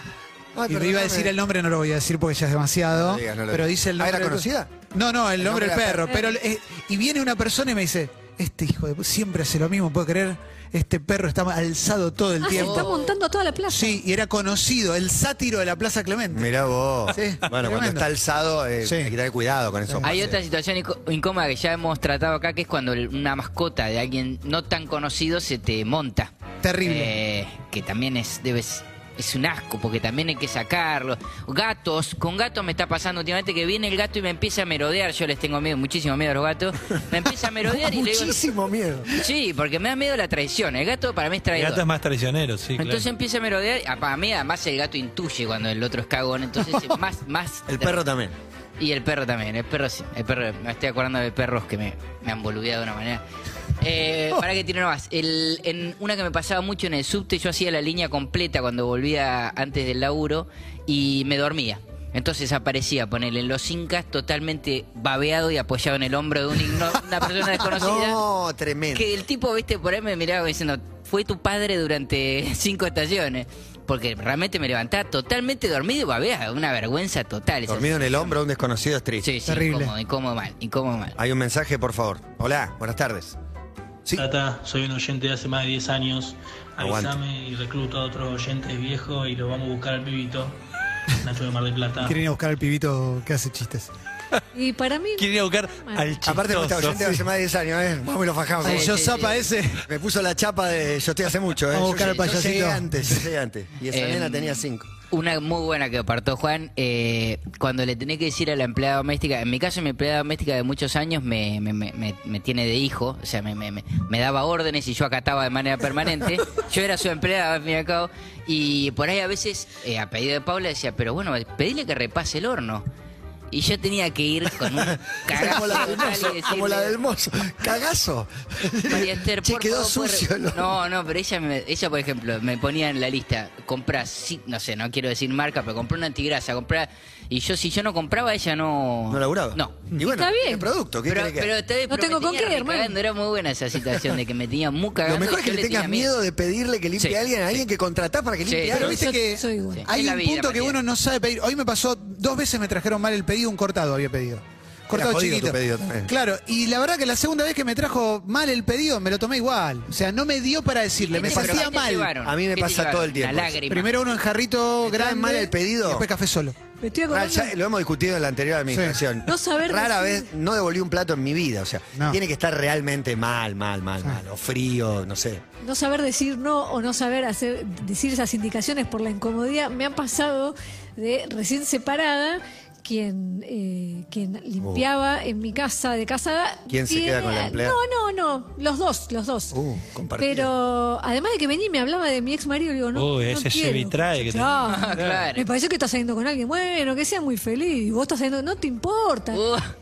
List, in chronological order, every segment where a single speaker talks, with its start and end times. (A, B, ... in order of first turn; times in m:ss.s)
0:00.5-0:01.3 A
0:00.7-0:12.9 B
0:02.9-0:04.7 A
0:05.4-0:06.2 A
0:12.4-0:14.0 C
0:12.5-0:13.1 D
0:13.7-0:16.5 B
0:16.3-0:20.4 A
0:17.1-0:18.1 B
0:18.8-0:19.1 B
0:20.0-0:26.3 D
0:26.6-0:27.1 B
0:26.8-0:38.4 D
0:37.2-0:39.3 A
0:39.1-0:41.8 D
0:41.5-0:43.0 E
0:42.8-0:48.0 D
0:47.7-0:48.3 A
0:48.8-0:53.2 D
0:53.8-1:08.2 D
1:07.6-1:09.1 A
1:08.9-1:18.4 D
1:17.7-1:19.3 A
1:19.2-1:21.2 D
1:19.4-1:19.9 B
1:21.2-1:23.4 A
1:24.1-1:30.6 F
1:26.8-1:27.2 A
1:31.2-1:32.2 F
1:32.0-1:33.9 B
1:34.5-1:36.2 C
1:35.2-1:37.1 E
1:36.2-1:39.3 A
1:38.6-1:39.5 D
1:38.6-1:39.8 B
1:39.8-1:44.9 A
1:41.7-1:43.2 B
1:43.9-2:02.8 D
2:03.5-2:07.0 D
2:04.7-2:10.7 A
2:08.9-2:19.8 D
2:19.1-2:21.5 A
2:20.0-2:20.7 C
2:21.1-2:26.1 D
2:21.9-2:23.0 C
2:25.0-2:29.0 A
2:27.0-2:27.6 D
2:28.4-2:28.9 D
2:28.7-2:42.1 B
2:28.8-2:29.8 C
2:29.7-2:30.8 D
2:34.9-2:36.1 A
2:41.0-2:43.9 D
2:41.2-2:43.6 A
2:43.7-2:46.6 B
2:44.8-2:46.1 A
2:46.8-2:47.5 C
2:47.1-2:55.4 A
2:48.7-2:49.0 B
2:49.2-2:50.3 C
2:55.6-3:09.5 C
3:04.6-3:04.9 A
3:06.7-3:07.8 A
3:09.5-3:10.5 A
3:10.2-3:19.4 C
3:12.9-3:15.2 E
3:14.7-3:15.4 D
3:19.3-3:19.7 D